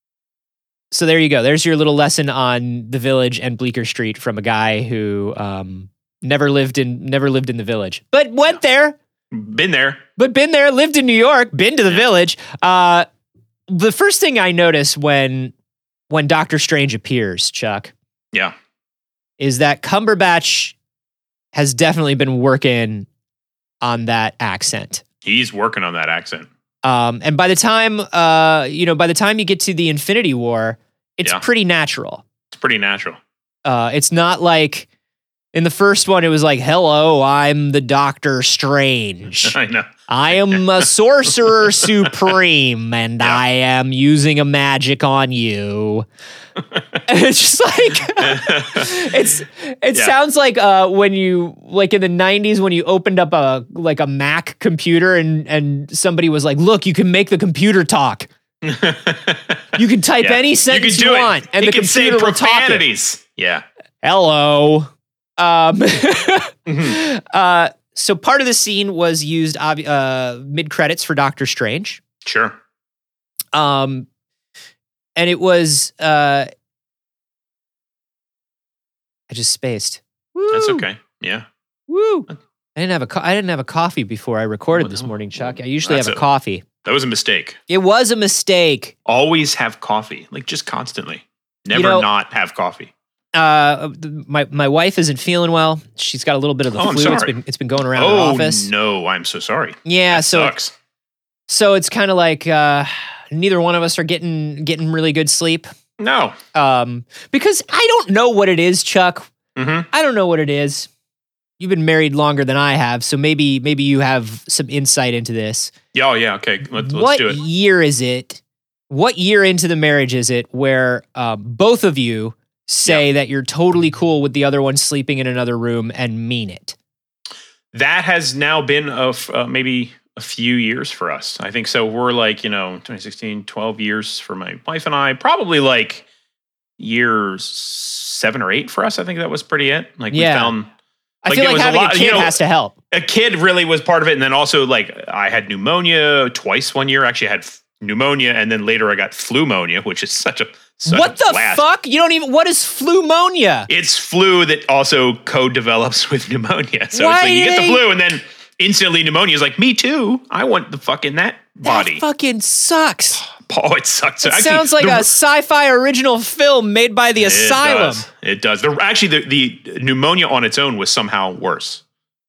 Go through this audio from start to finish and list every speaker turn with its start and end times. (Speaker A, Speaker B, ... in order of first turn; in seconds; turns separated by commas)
Speaker A: 0.9-9.0, Speaker B: 9.3-10.0, Speaker A: 10.2-13.1, Speaker A: 13.7-15.5, Speaker A: 16.1-17.9, Speaker A: 19.4-20.8, Speaker A: 21.5-23.1, Speaker A: 23.8-25.0, Speaker B: 25.2-26.5, Speaker A: 26.8-32.2, Speaker B: 32.5-33.2, Speaker A: 33.6-34.9, Speaker A: 35.5-39.6, Speaker B: 39.4-40.9, Speaker A: 40.1-46.1, Speaker B: 41.7-42.3, Speaker A: 47.1-58.3, Speaker B: 48.2-49.1, Speaker B: 58.6-63.6, Speaker A: 59.8-62.9, Speaker A: 64.0-72.0, Speaker B: 66.7-67.0, Speaker B: 72.2-72.6, Speaker A: 73.5-74.1, Speaker A: 75.2-76.5, Speaker A: 79.3-80.9, Speaker B: 80.5-81.5, Speaker A: 81.9-86.7, Speaker B: 84.7-86.2, Speaker B: 86.8-87.6, Speaker A: 87.7-89.0, Speaker B: 89.1-92.9, Speaker A: 91.7-92.1, Speaker A: 93.3-98.7, Speaker B: 96.8-97.4, Speaker B: 97.9-100.7, Speaker A: 99.8-100.5, Speaker A: 101.5-105.7, Speaker B: 106.0-106.4, Speaker A: 106.5-109.3, Speaker B: 109.6-109.9, Speaker A: 109.9-110.9, Speaker A: 111.6-115.7, Speaker B: 115.9-117.4, Speaker A: 116.8-126.8, Speaker B: 127.7-136.1, Speaker B: 136.8-140.7, Speaker A: 140.1-140.5, Speaker A: 141.2-142.7, Speaker B: 141.3-142.4, Speaker B: 142.9-151.6, Speaker A: 150.9-153.7, Speaker B: 153.7-162.0, Speaker A: 156.9-157.8, Speaker A: 161.6-163.2, Speaker B: 163.2-165.1, Speaker A: 164.2-168.1, Speaker B: 167.2-171.8